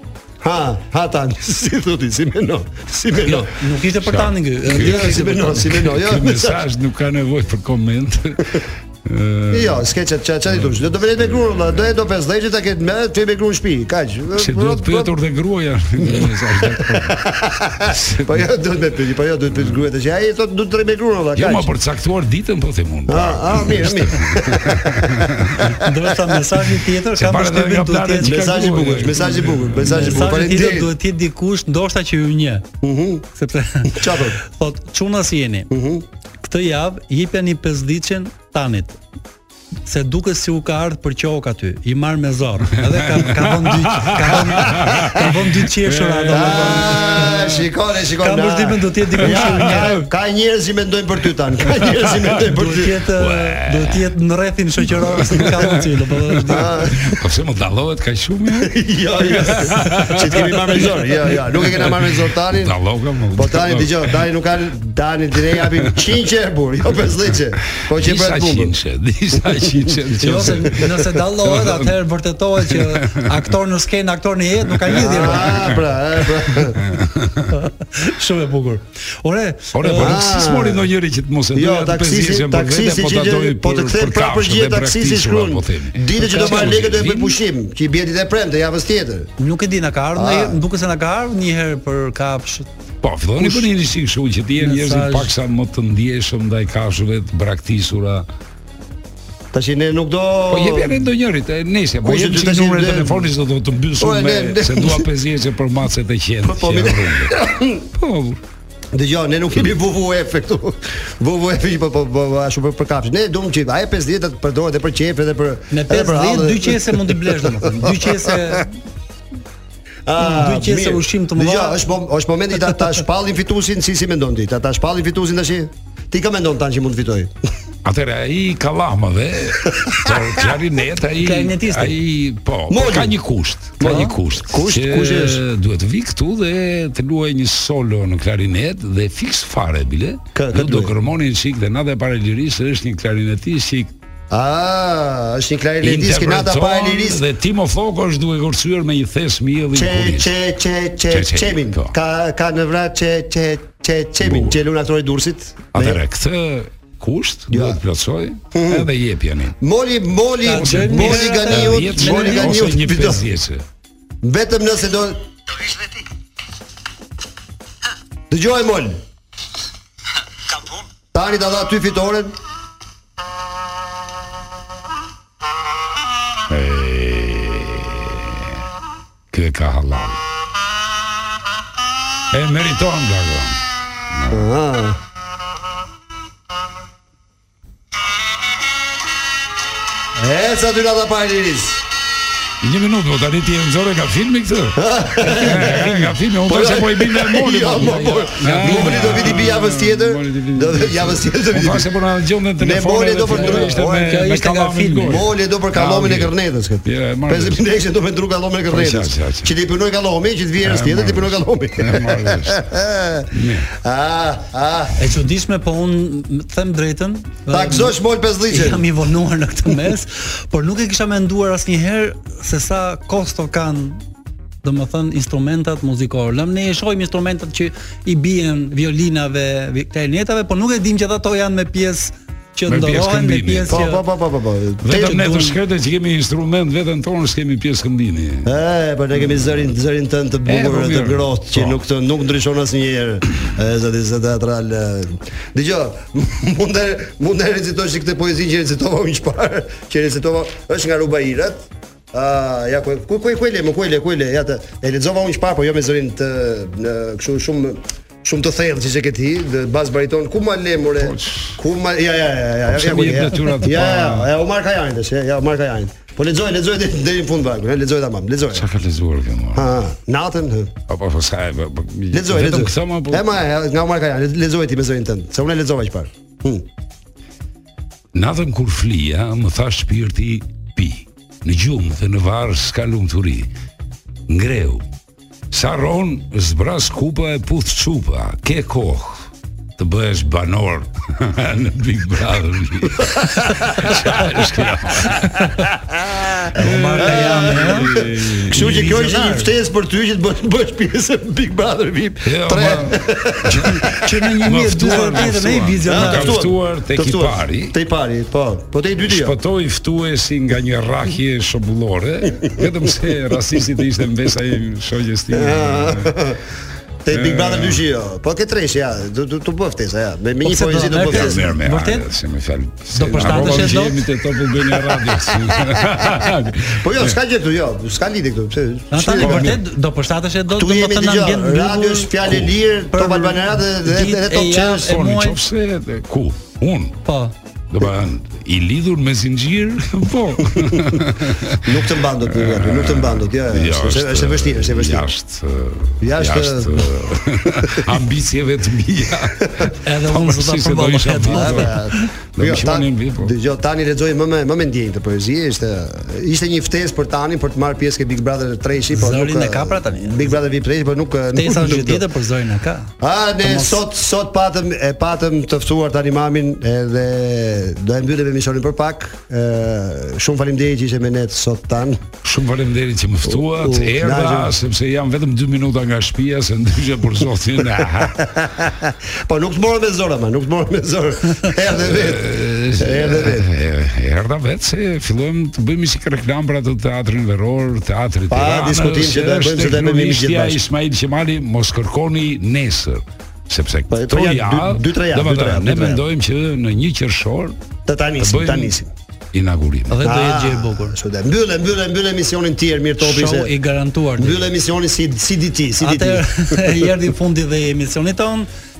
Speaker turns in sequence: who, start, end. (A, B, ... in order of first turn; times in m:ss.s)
0:00.4-0:03.5 A
0:03.5-0:05.9 B
0:04.0-0:09.9 C
0:04.7-0:06.6 A
0:09.5-0:15.1 A
0:10.5-0:12.0 C
0:14.4-0:17.2 C
0:16.0-0:21.7 A
0:17.8-0:18.5 C
0:21.4-0:25.8 C
0:23.1-0:25.7 A
0:25.7-0:32.7 B
0:27.1-0:30.2 C
0:28.2-0:30.9 A
0:32.8-0:33.2 A
0:33.3-0:35.7 B
0:33.9-0:34.4 A
0:35.7-0:36.0 A
0:36.4-0:39.0 B
0:39.9-0:47.5 B
0:43.1-0:47.6 C
0:46.3-0:53.0 A
0:48.2-0:50.0 B
0:49.3-0:50.0 C
0:51.8-0:52.3 C
0:52.4-0:56.8 B
0:53.2-0:54.1 C
0:54.9-1:04.2 C
0:56.5-0:57.1 A
0:58.6-1:02.8 A
1:03.4-1:08.8 A
1:05.6-1:06.0 C
1:07.9-1:12.0 C
1:09.5-1:10.6 A
1:10.2-1:15.7 B
1:12.6-1:13.5 C
1:14.7-1:15.9 C
1:14.9-1:16.8 A
1:16.7-1:17.6 C
1:17.5-1:20.2 B
1:19.7-1:27.4 C
1:20.0-1:20.9 A
1:21.5-1:29.3 A
1:26.2-1:26.9 B
1:29.4-1:32.7 B
1:30.2-1:30.6 A
1:33.0-1:38.3 C
1:33.4-1:33.7 B
1:34.6-1:35.3 B
1:39.5-1:41.0 A
1:40.5-1:47.4 C
1:42.0-1:43.3 A
1:44.0-1:45.1 A
1:46.4-1:47.8 A
1:47.9-1:48.4 C
1:48.9-1:58.6 A
1:55.7-1:58.7 B
2:00.1-2:07.3 A
2:00.2-2:01.8 B
2:07.8-2:23.9 C
2:09.8-2:10.1 A
2:11.2-2:12.0 B
2:12.7-2:13.2 A
2:13.8-2:15.4 A
2:13.8-2:14.1 B
2:20.4-2:20.9 A
2:24.3-2:27.2 A
2:25.8-2:30.3 C
2:29.8-2:36.0 A
2:31.1-2:31.9 C
2:34.2-2:34.6 C
2:35.7-2:39.6 C
2:37.5-2:37.8 A
2:38.5-2:38.9 A
2:39.6-2:43.2 A
2:40.4-2:43.2 B
2:40.7-2:43.6 C
2:44.2-2:45.9 A
2:48.3-2:49.0 A
2:51.1-2:52.4 A
2:56.5-2:58.6 C
2:59.3-3:00.2 C
3:02.3-3:03.6 C
3:04.1-3:04.5 C
3:04.3-3:05.0 A
3:10.2-3:11.8 A
3:12.6-3:26.3 C
3:14.8-3:21.9 A
3:15.2-3:15.9 B
3:17.7-3:19.5 B
3:22.6-3:24.2 A
3:23.3-3:25.3 B
3:25.0-3:35.0 A
3:26.9-3:27.6 C
3:28.7-3:29.5 C
3:30.6-3:32.6 C
3:33.3-3:33.7 C
3:35.0-3:38.0 B
3:37.5-3:38.9 A
3:38.5-3:44.0 B
3:44.6-3:54.0 B
3:52.7-3:53.8 C
3:53.7-3:55.6 A
3:54.8-3:58.5 C
3:58.5-4:28.7 A
4:00.4-4:01.8 C
4:21.0-4:21.6 C
4:22.7-4:24.3 C
4:28.5-4:29.8 C
4:29.6-4:30.7 A
4:30.9-4:33.3 C
4:32.1-4:36.7 A
4:38.1-4:43.5 C
4:44.3-4:44.8 C
4:45.5-4:55.5 C
4:53.0-4:54.4 A
4:55.7-4:56.5 A
4:56.6-4:58.0 B
4:56.6-4:58.9 C
4:57.0-5:03.9 A
4:58.5-4:59.5 B
5:02.2-5:07.8 C
5:03.8-5:06.4 B
5:05.8-5:09.4 A
5:09.0-5:16.1 C
5:15.3-5:16.4 A
5:17.0-5:21.5 A
5:17.1-5:17.8 C
5:20.4-5:22.1 B
5:21.0-5:27.2 C
5:22.9-5:24.0 B
5:23.1-5:23.8 A
5:26.7-5:29.6 A
5:28.9-5:35.4 B
5:29.2-5:29.6 C
5:30.5-5:35.0 A
5:34.8-5:37.0 C
5:37.0-5:37.3 B
5:37.7-5:41.7 C
5:40.5-5:40.8 A
5:41.6-5:45.1 A
5:42.2-5:51.8 C
5:46.0-5:47.7 A
5:49.8-5:52.1 B
5:51.2-6:02.1 A
5:52.4-5:53.3 C
5:58.9-6:00.4 B
6:01.4-6:02.9 B
6:03.0-6:12.0 A
6:03.4-6:03.8 B
6:12.2-6:18.2 C
6:13.3-6:14.5 A
6:18.0-6:23.5 A
6:21.8-6:37.6 C
6:28.3-6:30.6 A
6:33.9-6:36.0 A
6:37.9-6:38.9 A
6:38.2-6:38.8 C
6:39.3-6:40.0 C
6:39.9-6:41.0 B
6:40.0-6:43.5 A
6:43.0-6:44.5 B
6:44.2-6:46.9 A
6:45.8-6:48.5 B